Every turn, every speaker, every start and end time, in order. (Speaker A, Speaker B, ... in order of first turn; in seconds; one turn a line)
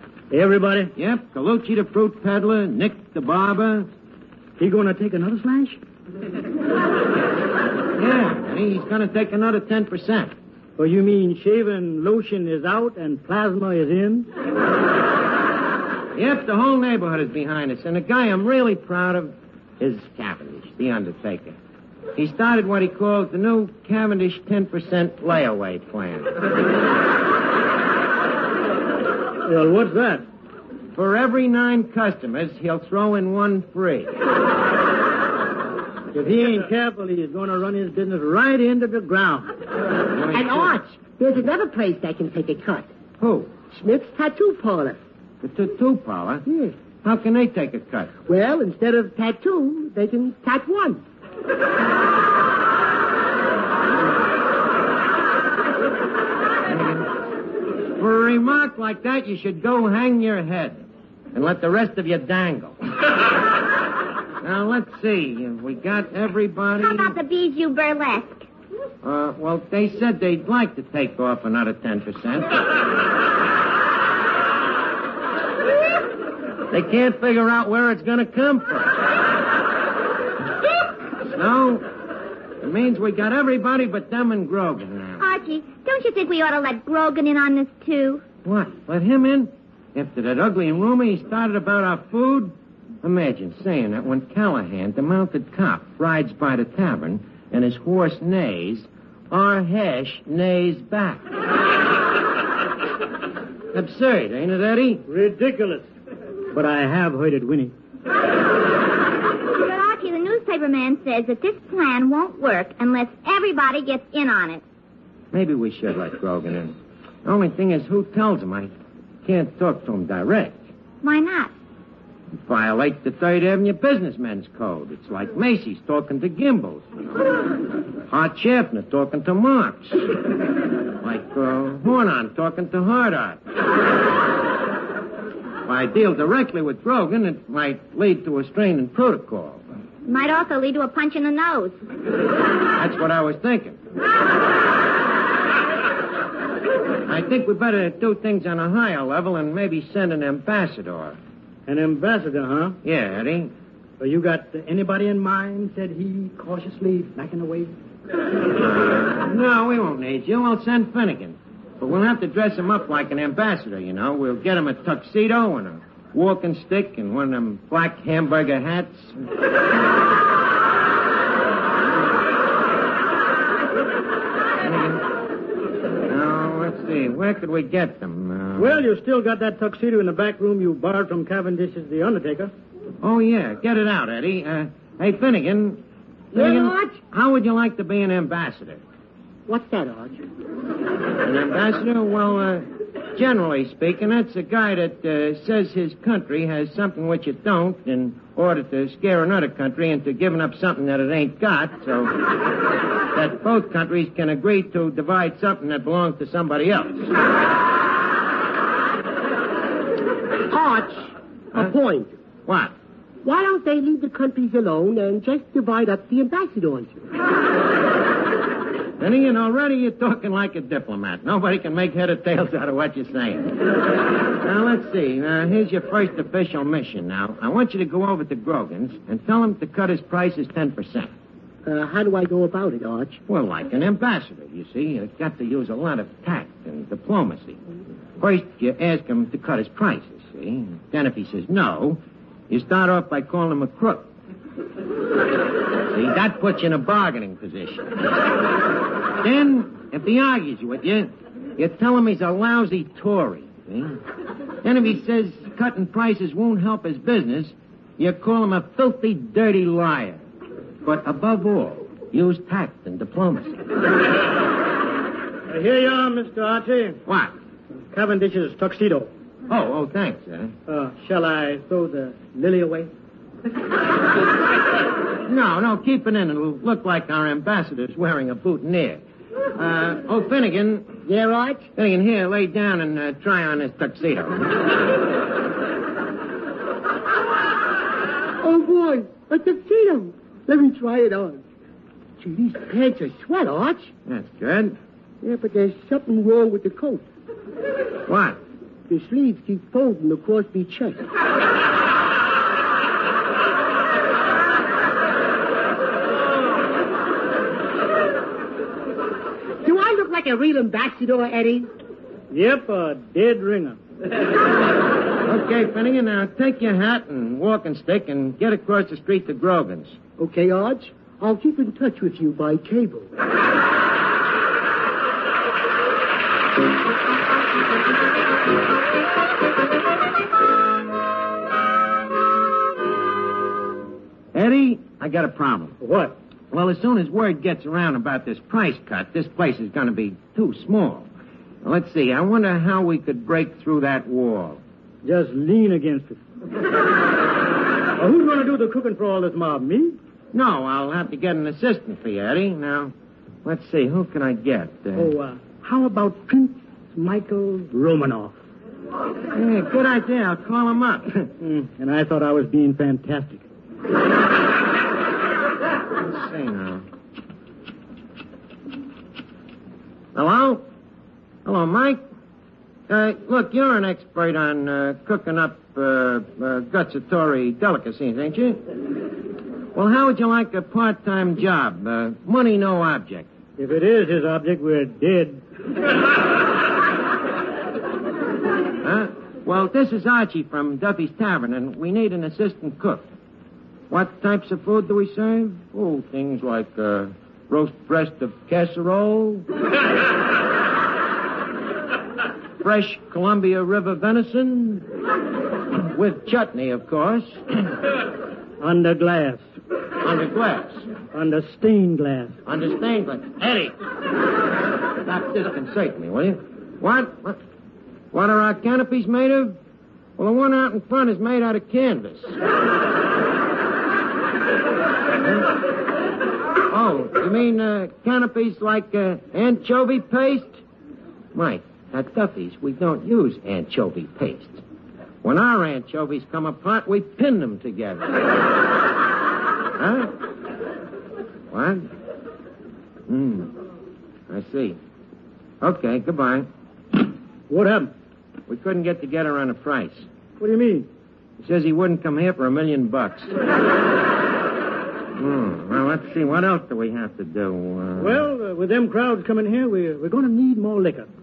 Speaker A: 0.3-0.9
Speaker B: 1.0-3.9
Speaker A: 4.6-5.8
Speaker B: 7.9-10.3
Speaker A: 10.8-14.3
Speaker B: 16.1-21.6
Speaker B: 22.1-26.4
Speaker A: 29.4-30.2
Speaker B: 30.9-34.1
Speaker A: 36.1-39.5
Speaker B: 40.1-40.6
Speaker C: 40.3-42.9
Speaker B: 43.2-43.6
Speaker C: 43.7-45.0
Speaker B: 45.4-46.4
Speaker C: 46.5-46.7
Speaker B: 47.0-48.1
Speaker C: 48.3-51.0
Speaker B: 56.6-57.1
Speaker B: 57.9-60.8
Speaker B: 61.3-63.1
Speaker B: 64.4-67.1
Speaker D: 66.8-68.5
Speaker B: 69.0-72.6
Speaker B: 76.7-79.0
Speaker B: 81.2-81.8
Speaker B: 82.6-85.2
Speaker D: 85.2-88.2
Speaker B: 88.4-101.2
Speaker B: 103.7-105.0
Speaker A: 105.0-105.9
Speaker A: 106.5-107.7
Speaker D: 109.5-114.6
Speaker B: 115.3-116.7
Speaker B: 117.2-118.7
Speaker B: 119.2-120.5
Speaker D: 121.0-121.5
Speaker B: 122.4-127.0
Speaker B: 128.1-130.1
Speaker B: 131.0-133.4
Speaker B: 135.6-139.6
Speaker D: 140.1-141.7
Speaker B: 142.8-143.8
Speaker B: 147.1-151.2
Speaker A: 151.7-152.8
Speaker B: 152.8-153.5
Speaker A: 154.0-157.7
Speaker B: 158.5-169.3
Speaker B: 174.6-175.1
Speaker B: 176.1-178.8
Speaker A: 178.6-182.5
Speaker B: 183.0-185.8
Speaker C: 186.3-187.0
Speaker B: 186.3-188.8
Speaker C: 189.5-190.2
Speaker B: 191.2-202.2
Speaker B: 203.1-207.1
Speaker C: 210.5-212.1
Speaker B: 212.4-212.7
Speaker C: 213.2-216.9
Speaker B: 219.0-223.6
Speaker B: 224.4-231.1
Speaker C: 231.6-233.2
Speaker B: 233.3-237.6
Speaker B: 238.2-244.1
Speaker B: 245.8-248.0
Speaker B: 249.2-254.0
Speaker B: 254.6-260.2
Speaker B: 260.8-263.5
Speaker A: 265.5-267.0
Speaker B: 267.1-267.3
Speaker A: 267.9-269.1
Speaker B: 269.5-270.5
Speaker A: 270.7-272.9
Speaker B: 275.2-279.0
Speaker B: 279.5-280.9
Speaker C: 281.1-281.7
Speaker B: 281.7-284.5
Speaker C: 288.4-291.4
Speaker C: 292.2-293.9
Speaker B: 294.1-294.8
Speaker C: 295.2-297.1
Speaker B: 298.1-298.4
Speaker C: 298.9-301.1
Speaker C: 309.6-311.7
Speaker A: 312.3-313.8
Speaker B: 315.2-320.0
Speaker C: 320.2-323.1
Speaker B: 334.3-335.8
Speaker A: 335.8-336.1
Speaker B: 336.5-341.1
Speaker B: 341.6-344.6
Speaker A: 345.0-346.2
Speaker A: 348.0-349.9
Speaker B: 350.3-352.9
Speaker B: 353.4-355.1
Speaker A: 354.9-358.4
Speaker B: 359.3-361.3
Speaker A: 361.4-363.4
Speaker B: 366.0-366.9
Speaker B: 370.1-370.6
Speaker B: 371.4-372.0
Speaker B: 372.9-378.6
Speaker B: 379.7-383.3
Speaker A: 383.6-385.4
Speaker B: 388.8-393.1
Speaker B: 393.9-399.5
Speaker B: 402.6-404.9
Speaker B: 405.8-407.8
Speaker A: 408.6-409.4
Speaker B: 410.0-410.9
Speaker A: 411.1-412.4
Speaker B: 412.4-413.7
Speaker B: 415.0-417.4
Speaker B: 418.1-419.6
Speaker B: 420.2-422.4
Speaker B: 426.7-430.6
Speaker B: 431.3-434.6
Speaker B: 435.2-438.1
Speaker B: 439.8-440.1
Speaker B: 441.5-441.9
Speaker B: 443.1-443.6
Speaker B: 444.3-444.8
Speaker B: 445.6-446.5
Speaker A: 447.5-447.9
Speaker B: 448.5-450.1
Speaker A: 450.4-450.9
Speaker B: 451.4-453.3
Speaker B: 455.1-458.2
Speaker A: 458.0-461.1